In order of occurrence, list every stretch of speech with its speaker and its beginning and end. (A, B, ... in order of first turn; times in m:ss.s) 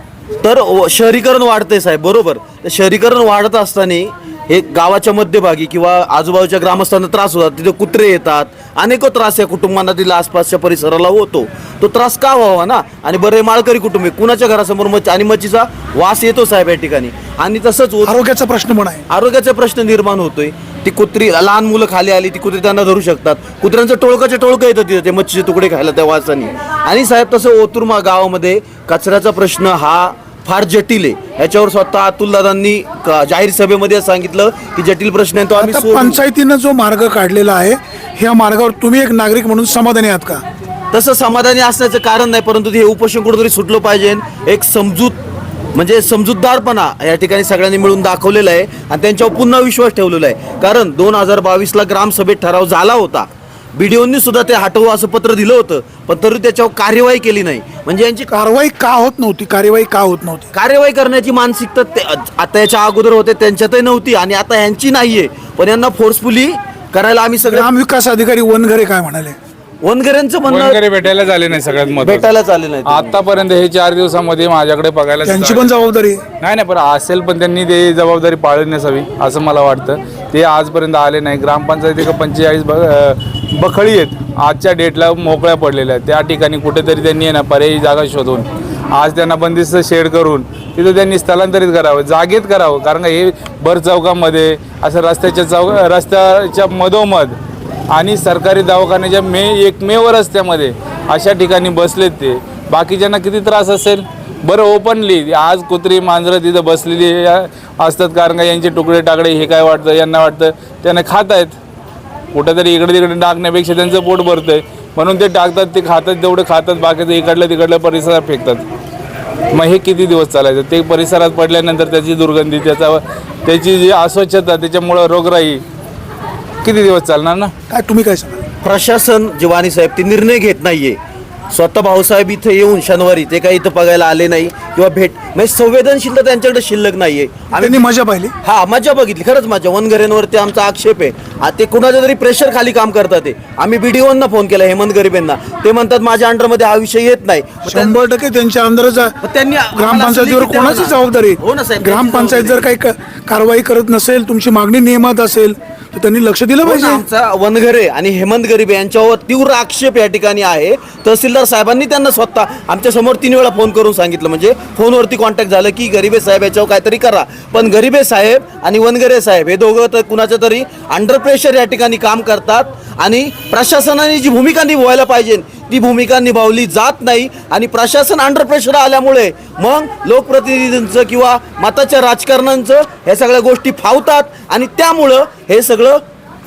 0:00.4-0:18.2 A
0:18.0-0:19.0 B
0:19.1-0:36.2 A
0:35.6-0:40.4 B
0:40.9-0:45.2 A
0:45.7-0:58.3 A
0:58.3-1:00.5 B
1:00.5-1:07.7 A
1:07.4-1:09.4 B
1:09.8-1:10.8 A
1:10.5-1:12.3 C
1:12.0-1:13.2 A
1:12.9-1:15.7 C
1:15.2-1:16.2 B
1:16.4-1:37.4 C
1:37.9-1:51.6 C
1:52.3-1:58.6 C
1:59.5-2:05.6 C
2:06.6-2:07.5 C
2:07.7-2:08.4 B
2:08.6-2:11.0 A
2:11.5-2:17.8 A
2:17.5-2:18.4 B
2:18.4-2:28.0 A
2:27.7-2:29.2 B
2:29.2-2:32.6 A
2:29.7-2:37.0 B
2:36.6-3:06.0 A